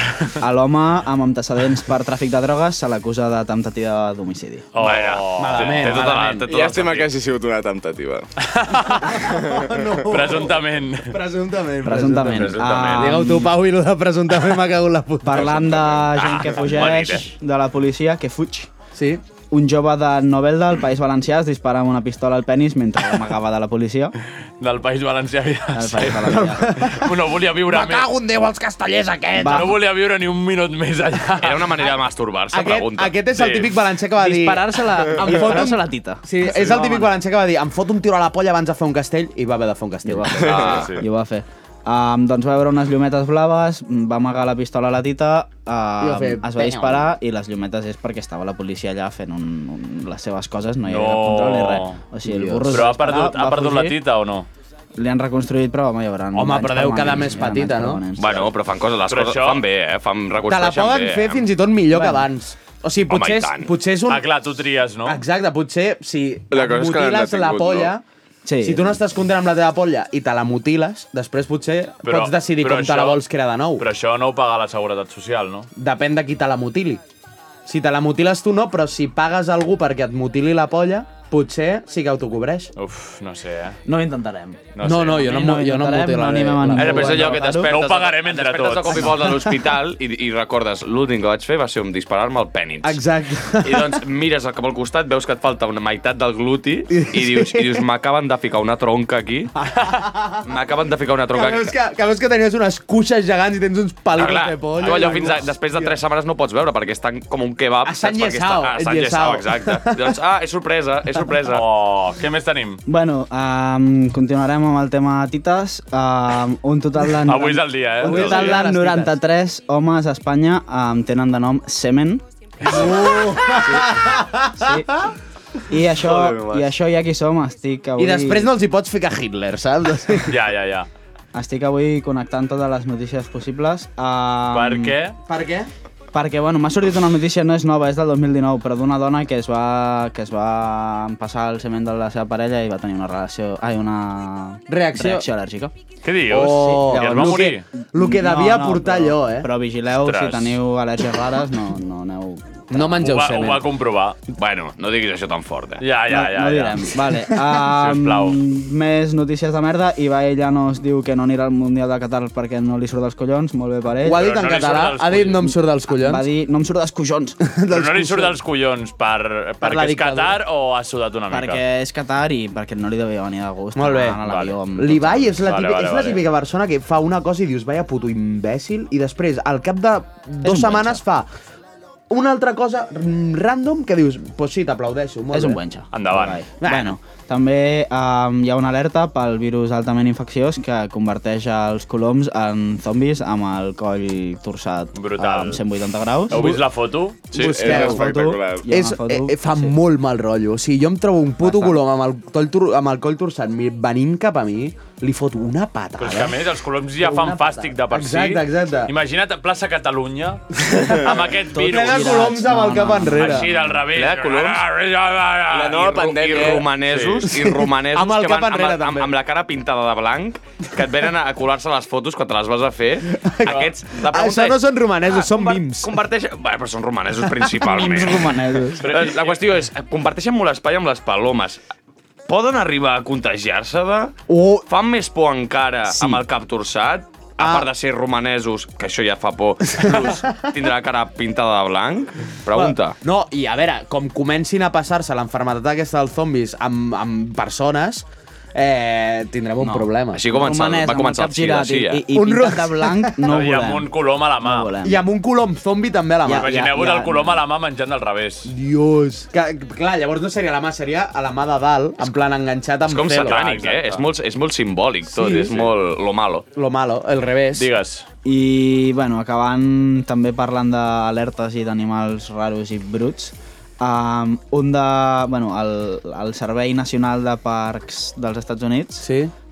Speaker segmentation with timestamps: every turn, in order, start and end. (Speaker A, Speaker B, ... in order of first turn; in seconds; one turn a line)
Speaker A: 0.3-4.7
Speaker B: 4.7-6.2
Speaker C: 4.8-7.1
Speaker D: 5.4-6.5
Speaker E: 6.5-8.3
Speaker B: 8.4-9.2
Speaker D: 9.1-15.8
Speaker E: 9.2-9.8
Speaker B: 10.1-11.2
Speaker A: 11.8-13.6
Speaker B: 12.5-13.0
Speaker A: 15.2-18.7
Speaker B: 15.9-17.3
Speaker D: 18.9-19.2
Speaker A: 19.5-24.2
Speaker B: 24.6-28.1
Speaker A: 25.8-26.8
Speaker D: 26.3-27.0
Speaker D: 27.9-29.6
Speaker A: 29.4-29.8
Speaker B: 29.5-31.8
Speaker C: 31.4-33.1
Speaker D: 32.5-40.9
Speaker B: 33.4-33.7
Speaker A: 34.2-37.1
Speaker A: 40.1-40.5
Speaker E: 40.4-40.9
Speaker C: 40.5-40.9
Speaker B: 40.6-41.0
Speaker A: 41.0-54.0
Speaker D: 46.0-47.1
Speaker B: 50.9-52.0
Speaker D: 52.2-52.9
Speaker B: 52.7-54.5
Speaker A: 55.0-58.5
Speaker D: 56.3-58.0
Speaker C: 58.2-61.4
Speaker B: 59.1-59.6
Speaker D: 60.4-64.3
Speaker A: 61.9-62.2
Speaker C: 63.1-63.7
Speaker B: 64.1-65.2
Speaker D: 65.0-68.0
Speaker E: 66.5-67.9
Speaker A: 68.5-68.9
Speaker D: 68.6-73.8
Speaker B: 72.0-73.2
Speaker B: 73.8-75.7
Speaker D: 75.8-77.0
Speaker D: 77.7-82.7
Speaker B: 82.8-83.8
Speaker A: 83.9-87.7
Speaker B: 84.8-85.3
Speaker D: 84.8-87.4
Speaker C: 86.8-93.0
Speaker B: 87.6-89.2
Speaker D: 92.8-94.0
Speaker C: 93.6-99.5
Speaker D: 96.9-97.8
Speaker D: 99.7-100.4
Speaker C: 100.4-101.7
Speaker D: 101.3-106.0
Speaker C: 104.2-111.6
Speaker D: 107.8-110.1
Speaker B: 111.5-112.8
Speaker A: 112.9-124.0
Speaker B: 117.3-118.6
Speaker D: 118.0-119.2
Speaker D: 122.6-125.1
Speaker A: 124.5-125.1
Speaker A: 125.7-128.5
Speaker E: 126.0-126.6
Speaker D: 128.0-130.4
Speaker B: 130.3-130.9
Speaker A: 131.3-134.9
Speaker B: 134.5-135.2
Speaker D: 135.3-135.7
Speaker A: 136.1-145.7
Speaker D: 144.7-145.3
Speaker B: 146.0-147.7
Speaker D: 146.3-149.5
Speaker A: 146.4-152.9
Speaker B: 150.0-150.6
Speaker D: 152.7-153.7
Speaker B: 153.0-154.2
Speaker C: 154.3-155.8
Speaker B: 155.8-156.9
Speaker A: 156.1-164.2
Speaker B: 157.7-158.4
Speaker D: 164.0-166.3
Speaker B: 164.1-165.5
Speaker A: 165.9-167.4
Speaker D: 167.5-168.4
Speaker B: 167.7-171.6
Speaker D: 169.6-170.4
Speaker A: 171.3-175.4
Speaker D: 173.8-174.2
Speaker B: 174.2-174.6
Speaker D: 174.8-181.3
Speaker B: 175.5-176.2
Speaker A: 180.4-181.0
Speaker D: 182.1-185.6
Speaker A: 185.3-196.4
Speaker B: 185.9-186.4
Speaker D: 186.6-187.0
Speaker B: 194.9-195.6
Speaker B: 196.3-197.3
Speaker D: 196.3-196.6
Speaker D: 197.3-198.1
Speaker E: 197.3-198.7
Speaker C: 197.4-197.8
Speaker A: 197.7-199.8
Speaker D: 198.7-206.4
Speaker A: 201.4-201.7
Speaker B: 206.0-212.3
Speaker D: 207.0-208.9
Speaker D: 210.7-213.5
Speaker A: 211.5-213.5
Speaker B: 213.1-216.1
Speaker C: 213.8-214.7
Speaker E: 215.5-216.7
Speaker C: 215.7-231.6
Speaker B: 216.8-217.3
Speaker D: 217.2-219.1
Speaker D: 223.2-226.0
Speaker B: 223.5-223.7
Speaker A: 227.6-228.8
Speaker B: 228.8-229.5
Speaker C: 232.3-243.0
Speaker D: 234.3-234.7
Speaker A: 235.9-236.2
Speaker D: 237.4-237.7
Speaker D: 239.8-240.5
Speaker D: 242.5-250.2
Speaker A: 249.6-255.0
Speaker C: 250.1-252.1
Speaker D: 252.1-253.4
Speaker B: 253.3-254.7
Speaker D: 254.8-257.2
Speaker B: 256.3-258.5
Speaker A: 256.8-257.3
Speaker D: 258.5-263.4
Speaker C: 262.9-266.4
Speaker B: 263.1-264.1
Speaker D: 265.1-265.7
Speaker D: 266.6-267.7
Speaker B: 267.6-268.1
Speaker A: 268.2-279.1
Speaker D: 279.0-279.3